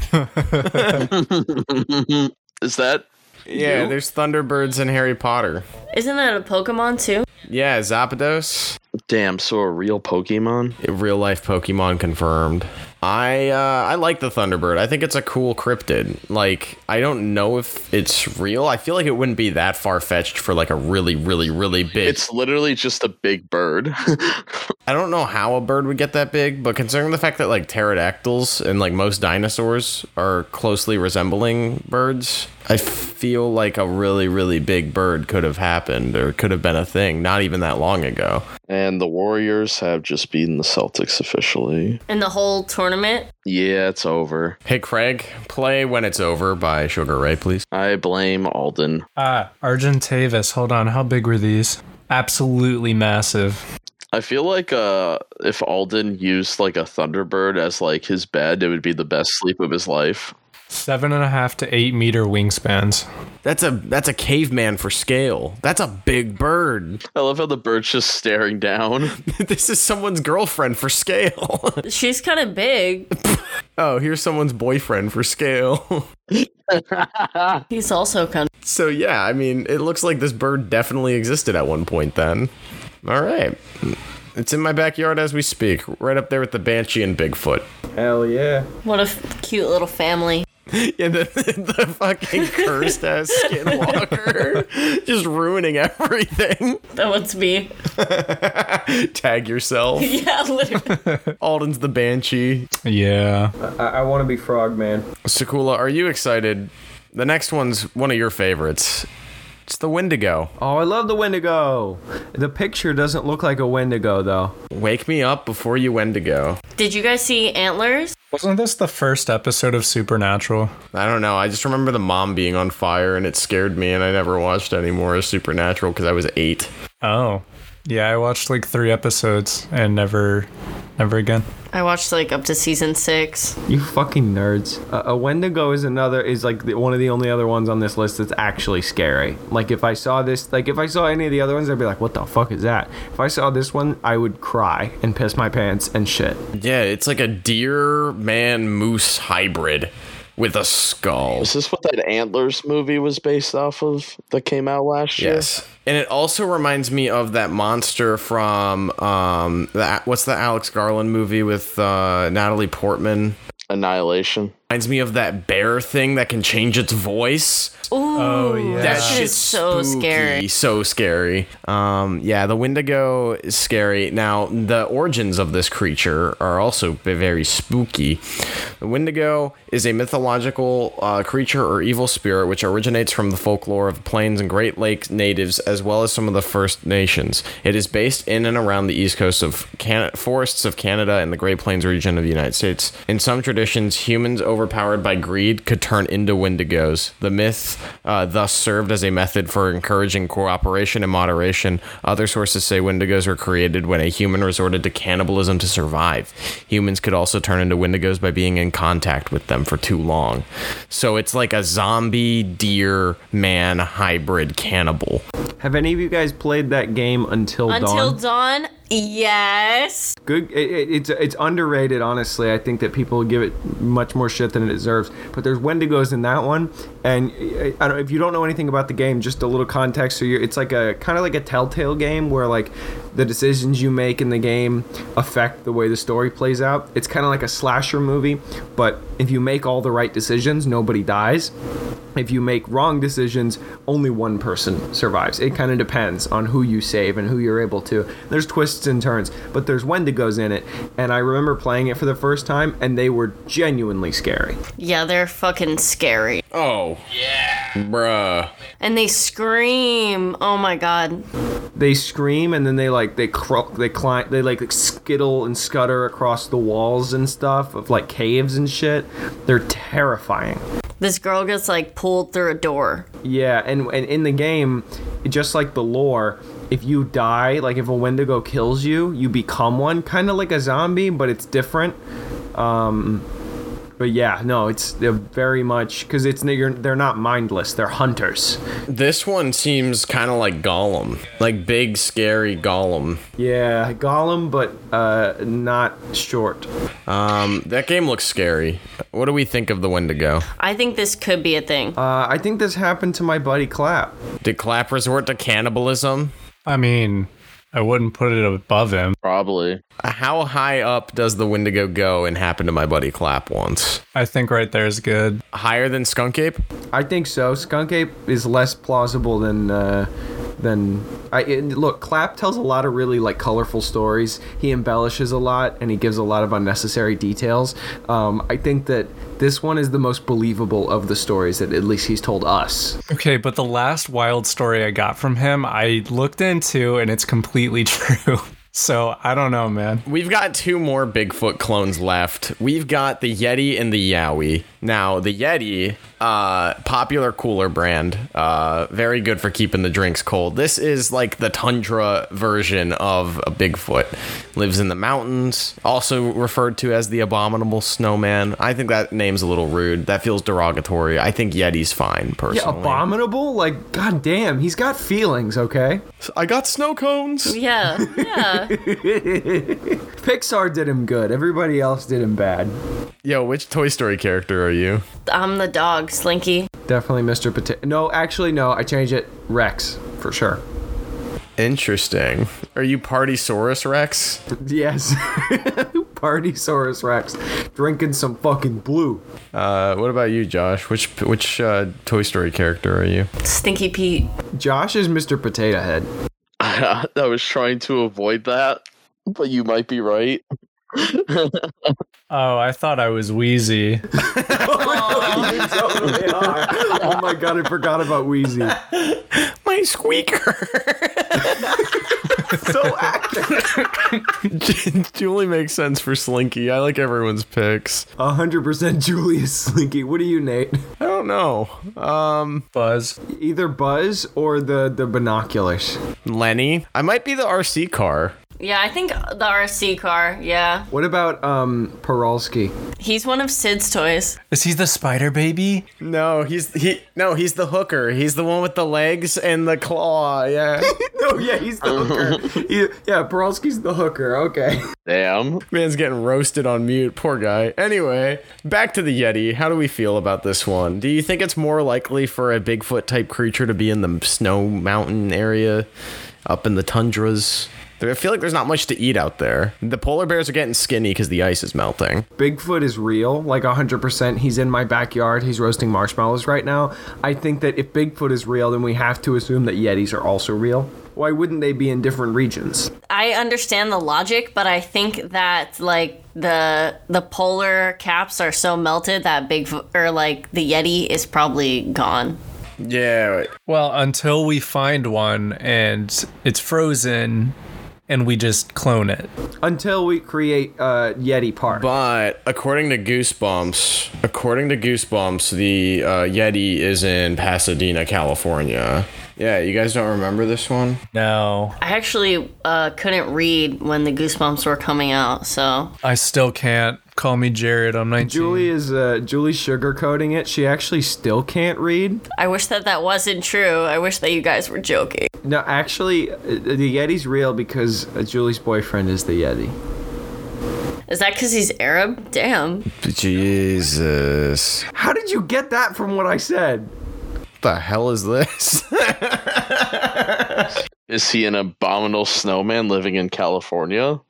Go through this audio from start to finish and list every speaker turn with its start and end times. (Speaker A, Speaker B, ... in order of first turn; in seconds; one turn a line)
Speaker A: 0.4-1.1
Speaker B: 0.4-1.0
Speaker C: 1.0-3.9
Speaker A: 3.5-5.7
Speaker D: 5.9-7.3
Speaker A: 7.5-8.8
Speaker C: 9.1-10.8
Speaker A: 10.8-22.2
Speaker C: 22.0-24.6
Speaker A: 24.9-38.5
Speaker C: 38.7-42.0
Speaker D: 42.1-43.3
Speaker C: 43.4-44.6
Speaker A: 44.6-47.6
Speaker C: 47.7-49.0
Speaker B: 49.2-53.6
Speaker C: 54.1-60.3
Speaker B: 60.7-63.0
Speaker A: 63.4-67.0
Speaker C: 67.1-69.1
Speaker A: 69.2-71.8
Speaker D: 71.8-73.1
Speaker A: 73.3-76.1
Speaker C: 76.3-77.6
Speaker D: 77.7-78.5
Speaker A: 78.6-82.5
Speaker A: 83.0-87.7
Speaker E: 88.0-88.7
Speaker D: 88.8-90.5
Speaker A: 90.7-96.8
Speaker D: 92.4-93.0
Speaker D: 93.5-94.2
Speaker D: 96.9-97.7
Speaker A: 97.9-100.1
Speaker D: 100.0-101.0
Speaker B: 100.8-101.3
Speaker A: 101.4-102.7
Speaker B: 102.8-103.5
Speaker E: 103.6-105.1
Speaker A: 105.2-109.1
Speaker A: 109.7-110.5
Speaker E: 110.6-114.5
Speaker A: 114.7-116.6
Speaker D: 116.8-118.2
Speaker B: 118.3-120.7
Speaker A: 120.9-126.7
Speaker B: 127.0-131.4
Speaker D: 131.7-133.6
Speaker E: 133.7-146.4
Speaker A: 146.6-151.5
Speaker C: 151.4-155.5
Speaker A: 155.2-163.4
Speaker C: 163.7-164.5
Speaker A: 164.7-167.9
Speaker D: 167.9-170.5
Speaker B: 168.1-169.3
Speaker A: 168.8-178.2
Speaker A: 178.8-215.2
Speaker E: 215.6-218.2
Speaker D: 217.7-220.1
Speaker E: 220.2-241.5
Speaker E: 242.2-254.6
Speaker D: 254.8-256.4
Speaker A: 256.5-258.5
Speaker D: 258.8-261.2
Speaker E: 261.8-270.6
Speaker D: 271.0-273.1
Speaker E: 273.2-282.0
Speaker E: 282.5-283.3
Speaker E: 284.0-288.6
Speaker A: 288.9-293.2
Speaker E: 293.4-296.7
Speaker A: 297.1-300.4
Speaker D: 300.6-302.0
Speaker E: 302.0-304.1
Speaker A: 304.4-306.3
Speaker B: 306.6-309.1
Speaker C: 309.2-309.8
Speaker A: 310.0-314.0
Speaker B: 314.1-315.4
Speaker A: 315.5-316.6
Speaker E: 316.9-333.0
Speaker B: 333.1-340.0
Speaker A: 340.1-363.1
Speaker E: 362.5-366.0
Speaker A: 366.2-367.6
Speaker D: 367.4-368.7
Speaker E: 367.9-372.7
Speaker A: 373.2-375.0
Speaker D: 375.2-376.7
Speaker E: 376.9-380.6
Speaker A: 381.6-384.4
Speaker E: 384.5-389.2
Speaker A: 389.5-393.3
Speaker D: 393.4-394.3
Speaker E: 394.6-396.1
Speaker C: 396.6-402.0
Speaker B: 402.3-404.1
Speaker E: 404.3-408.8
Speaker A: 404.4-406.1
Speaker C: 406.9-407.2
Speaker A: 408.8-412.3
Speaker E: 411.7-413.9
Speaker A: 414.4-418.1
Speaker E: 418.2-420.8
Speaker A: 421.0-422.7
Speaker B: 422.7-423.1
Speaker E: 423.2-426.0
Speaker A: 426.2-428.3
Speaker D: 428.6-430.9
Speaker E: 430.9-432.7
Speaker D: 433.0-434.4
Speaker B: 434.5-435.9
Speaker A: 436.0-440.9
Speaker E: 440.8-444.9
Speaker C: 441.9-442.4
Speaker C: 445.1-445.6
Speaker A: 445.7-455.9
Speaker A: 456.4-462.3
Speaker E: 462.4-472.9
Speaker D: 473.1-482.4
Speaker A: 482.8-483.5
Speaker B: 483.7-487.5
Speaker B: 488.1-489.3
Speaker E: 489.6-491.9
Speaker A: 491.7-501.0
Speaker B: 501.1-501.8
Speaker D: 501.8-505.9
Speaker B: 506.0-508.7
Speaker E: 508.2-512.2
Speaker D: 512.4-515.3
Speaker E: 515.4-519.7
Speaker D: 521.1-522.9
Speaker A: 523.0-524.9
Speaker E: 524.9-526.9
Speaker A: 527.6-530.7
Speaker C: 531.1-534.2